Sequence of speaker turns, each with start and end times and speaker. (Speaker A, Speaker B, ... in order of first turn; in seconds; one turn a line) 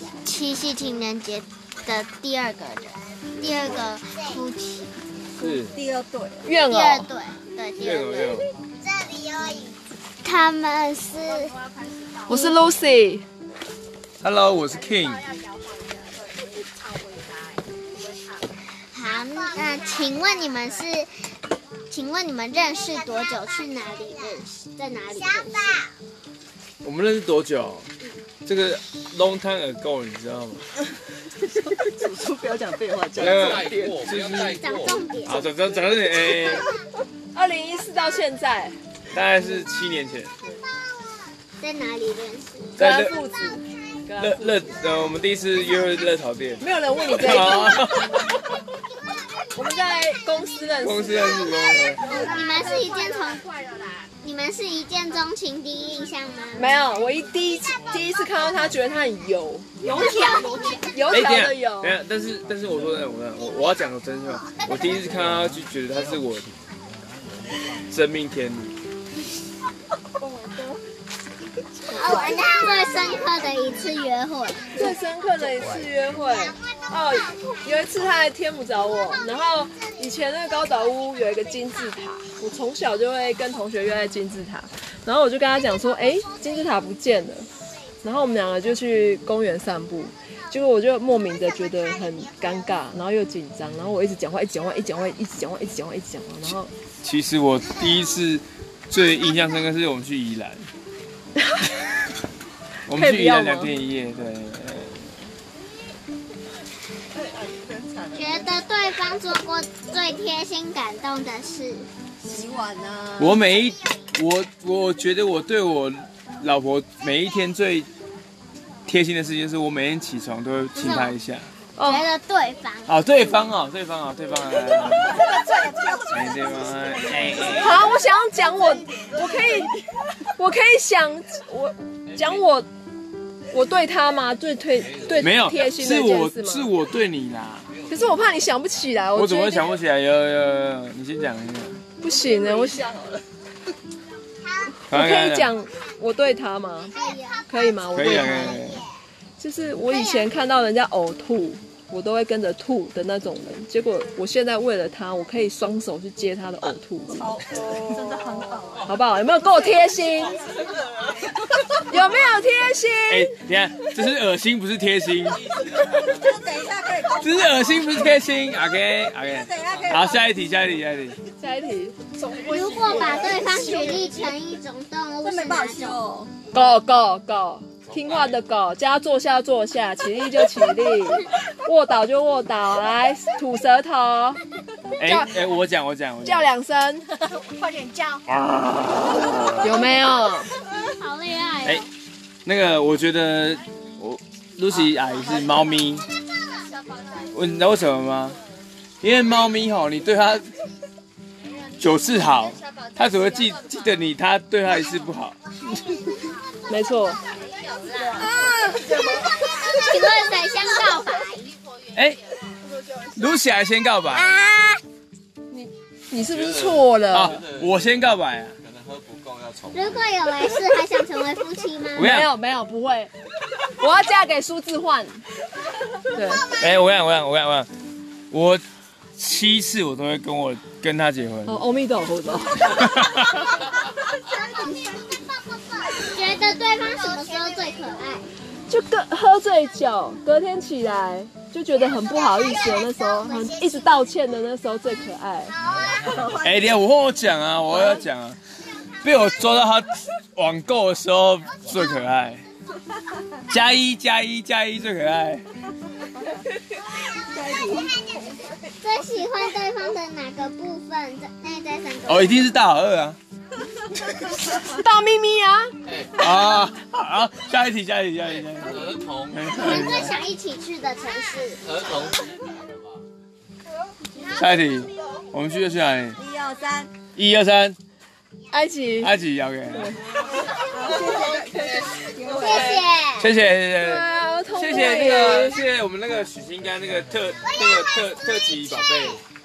Speaker A: 0.2-4.9
Speaker B: 5.4-5.8
Speaker C: 5.7-6.5
Speaker D: 6.4-7.0
Speaker A: 6.7-11.6
Speaker B: 7.8-8.5
Speaker D: 12.3-13.2
Speaker B: 14.2-15.2
Speaker A: 18.9-21.1
Speaker A: 21.9-25.9
Speaker B: 26.8-27.9
Speaker B: 28.4-30.6
Speaker C: 31.5-34.0
Speaker B: 33.1-34.6
Speaker E: 33.2-35.0
Speaker A: 34.2-35.4
Speaker B: 35.2-36.6
Speaker D: 37.3-38.8
Speaker B: 39.1-40.3
Speaker A: 41.6-42.7
Speaker B: 42.8-43.2
Speaker D: 42.8-44.7
Speaker B: 44.2-48.3
Speaker D: 46.6-47.9
Speaker D: 49.5-51.5
Speaker B: 50.8-52.1
Speaker A: 52.0-53.6
Speaker A: 54.2-56.6
Speaker D: 56.5-59.7
Speaker D: 60.9-62.0
Speaker B: 61.1-66.5
Speaker B: 67.9-68.8
Speaker C: 70.2-70.8
Speaker A: 71.9-74.8
Speaker D: 74.7-87.5
Speaker D: 88.0-96.7
Speaker B: 97.0-100.7
Speaker B: 102.9-105.1
Speaker D: 102.9-103.7
Speaker A: 108.1-111.9
Speaker C: 112.2-113.3
Speaker B: 113.2-117.9
Speaker B: 118.8-121.5
Speaker A: 120.7-121.2
Speaker D: 121.8-122.0
Speaker A: 121.8-122.9
Speaker B: 122.9-125.2
Speaker C: 124.9-126.5
Speaker B: 126.1-127.9
Speaker D: 127.6-129.7
Speaker D: 130.3-132.7
Speaker D: 133.5-136.7
Speaker B: 135.1-137.7
Speaker E: 137.7-138.2
Speaker D: 137.9-139.7
Speaker B: 139.1-141.8
Speaker D: 142.0-142.9
Speaker C: 142.6-143.2
Speaker D: 144.9-146.9
Speaker B: 144.9-145.5
Speaker A: 146.9-148.8
Speaker D: 147.5-148.6
Speaker B: 147.9-148.8
Speaker D: 149.4-157.3
Speaker A: 149.9-150.2
Speaker C: 157.2-158.8
Speaker D: 158.8-160.4
Speaker C: 160.5-161.1
Speaker D: 161.8-163.3
Speaker B: 163.1-165.4
Speaker C: 166.0-167.5
Speaker B: 167.2-171.2
Speaker C: 169.3-170.2
Speaker D: 171.4-172.0
Speaker C: 172.2-174.3
Speaker A: 172.4-176.0
Speaker C: 175.2-176.3
Speaker D: 176.5-184.4
Speaker D: 185.0-185.3
Speaker B: 185.0-186.5
Speaker D: 186.2-187.4
Speaker C: 187.5-188.2
Speaker B: 188.3-189.8
Speaker D: 189.6-190.5
Speaker A: 190.7-191.9
Speaker B: 192.4-196.0
Speaker B: 197.3-198.4
Speaker B: 199.0-200.5
Speaker B: 201.8-206.0
Speaker D: 206.7-207.2
Speaker C: 208.0-209.3
Speaker A: 209.4-211.5
Speaker B: 211.9-212.2
Speaker B: 213.1-214.3
Speaker A: 214.1-214.8
Speaker D: 215.5-217.4
Speaker B: 217.1-218.6
Speaker E: 218.7-220.0
Speaker A: 219.7-222.1
Speaker B: 221.9-222.3
Speaker D: 222.0-223.1
Speaker D: 223.8-225.2
Speaker D: 226.1-226.5
Speaker B: 226.6-227.7
Speaker B: 228.3-228.6
Speaker B: 229.2-231.6
Speaker D: 231.4-232.8
Speaker B: 232.9-233.2
Speaker A: 234.5-235.2
Speaker A: 235.8-238.3
Speaker D: 238.7-245.6
Speaker A: 242.2-243.8
Speaker A: 245.7-246.4
Speaker B: 246.4-248.4
Speaker B: 249.0-252.4
Speaker B: 253.5-255.4
Speaker C: 257.3-257.9
Speaker A: 258.8-262.5
Speaker B: 262.1-263.2
Speaker D: 264.6-265.7
Speaker B: 266.1-270.1
Speaker E: 268.8-269.3
Speaker A: 269.5-271.6
Speaker E: 271.7-272.4
Speaker B: 274.3-276.2
Speaker C: 276.2-276.9
Speaker B: 277.1-277.8
Speaker D: 278.5-279.1
Speaker B: 279.0-279.9
Speaker C: 280.5-282.8
Speaker A: 282.3-283.3
Speaker B: 283.2-289.2
Speaker D: 283.8-285.6